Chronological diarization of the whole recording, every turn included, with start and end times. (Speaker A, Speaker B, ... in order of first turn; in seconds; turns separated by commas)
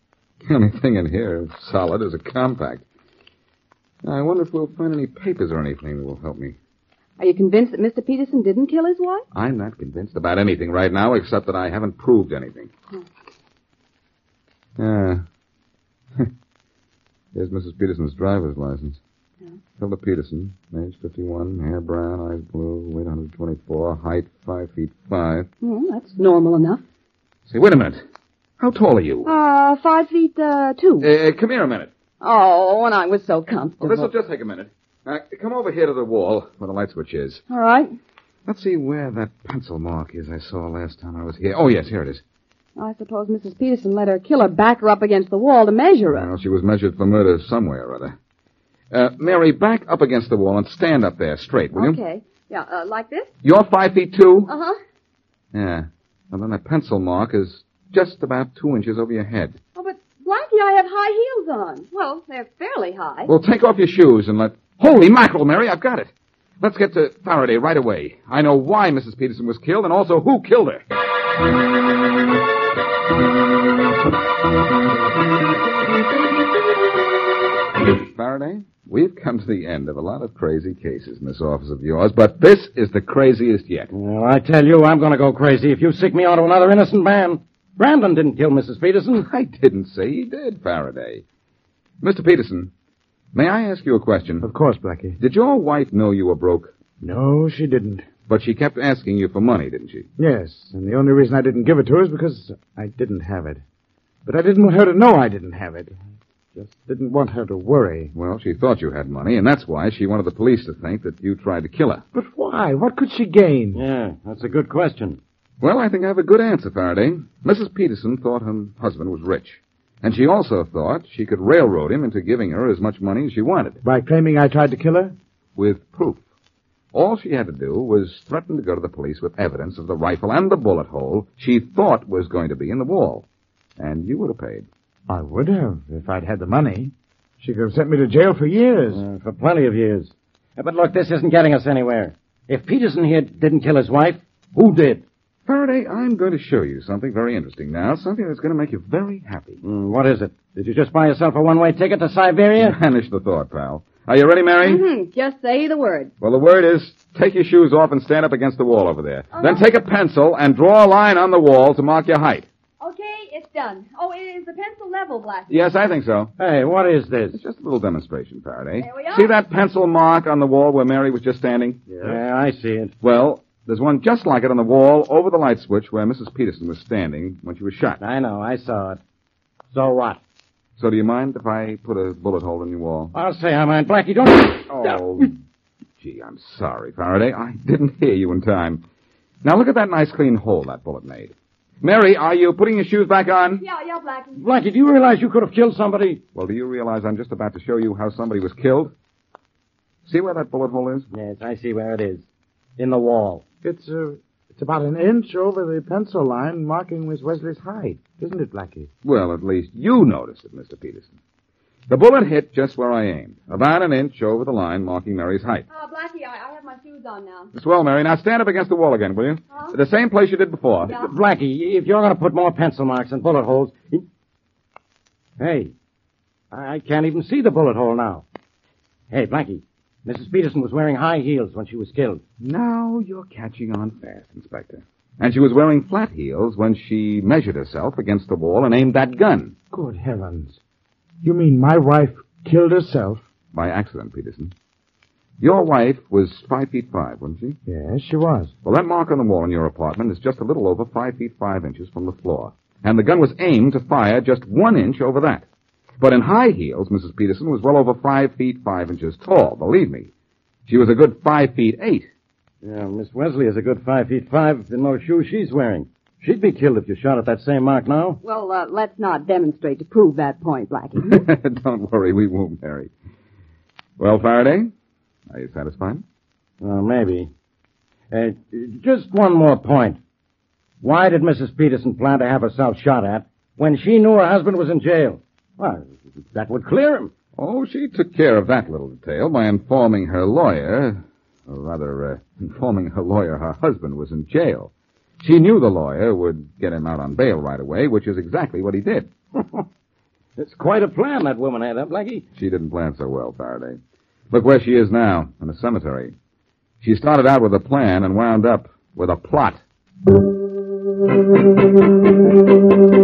Speaker A: 0.4-2.8, Speaker A: 4.0-6.5, Speaker B: 7.2-9.2, Speaker A: 9.3-12.7, Speaker A: 14.8-15.2, Speaker A: 17.3-19.0, Speaker A: 19.8-25.5, Speaker B: 25.6-26.8, Speaker A: 27.5-28.0, Speaker A: 28.6-29.3, Speaker B: 29.2-31.1, Speaker A: 31.0-31.9, Speaker B: 32.2-34.1, Speaker A: 33.8-37.4, Speaker B: 37.5-37.9, Speaker A: 38.5-42.2, Speaker B: 42.8-46.3, Speaker A: 46.1-48.1, Speaker A: 48.9-52.0, Speaker B: 51.7-53.3, Speaker A: 53.4-54.5, Speaker B: 54.5-54.8, Speaker A: 55.5-59.6, Speaker B: 59.7-63.3, Speaker A: 63.3-70.8, Speaker A: 78.0-83.9, Speaker C: 83.9-89.3, Speaker A: 89.2-91.2, Speaker A: 92.0-92.7, Speaker A: 93.3-94.5, Speaker D: 94.4-95.2, Speaker A: 95.2-96.7, Speaker D: 97.0-98.1, Speaker A: 98.3-100.1, Speaker D: 100.2-103.6, Speaker D: 104.2-105.9, Speaker D: 106.5-108.1, Speaker A: 108.1-112.0, Speaker D: 112.1-113.8, Speaker C: 113.7-115.2, Speaker A: 115.6-123.8, Speaker D: 123.8-125.2, Speaker A: 125.5-126.2, Speaker A: 126.9-133.2, Speaker A: 133.8-134.7, Speaker D: 135.1-139.0, Speaker C: 138.9-145.0, Speaker A: 145.5-149.6, Speaker C: 149.6-152.8, Speaker A: 152.6-154.8, Speaker B: 154.6-156.1, Speaker A: 156.2-162.5, Speaker B: 159.3-159.6, Speaker B: 162.8-165.6, Speaker A: 165.5-166.3, Speaker C: 166.4-167.4, Speaker A: 167.3-171.8, Speaker B: 168.8-169.3, Speaker D: 171.9-172.2, Speaker C: 172.0-172.9, Speaker A: 173.0-178.0, Speaker C: 178.0-179.0, Speaker C: 179.7-180.2, Speaker A: 180.8-183.1, Speaker C: 183.1-185.0, Speaker A: 184.7-185.3, Speaker A: 186.0-188.8, Speaker A: 189.4-193.6, Speaker B: 193.6-194.4, Speaker C: 194.3-196.2, Speaker A: 196.3-198.9, Speaker A: 200.1-201.1, Speaker C: 201.1-202.2, Speaker C: 202.8-203.4, Speaker D: 203.6-208.9, Speaker A: 209.0-211.1, Speaker A: 211.9-215.7, Speaker B: 215.7-217.5, Speaker A: 217.5-221.0, Speaker C: 221.0-224.0, Speaker C: 225.4-225.7, Speaker C: 226.5-228.2, Speaker C: 229.1-232.2, Speaker A: 232.4-239.5, Speaker D: 239.7-240.6, Speaker D: 241.2-243.2, Speaker A: 243.5-244.5, Speaker A: 245.4-247.6, Speaker D: 247.7-248.5, Speaker A: 248.6-255.4, Speaker A: 256.0-260.1, Speaker A: 260.7-262.1, Speaker C: 262.6-268.2, Speaker B: 268.2-271.2, Speaker A: 271.0-272.9, Speaker A: 274.0-274.7, Speaker A: 275.3-276.0, Speaker C: 276.6-277.3, Speaker C: 278.1-280.0, Speaker C: 280.8-287.1, Speaker A: 287.4-299.1, Speaker C: 300.4-302.2, Speaker A: 302.4-303.8, Speaker A: 304.3-306.1, Speaker A: 306.8-309.6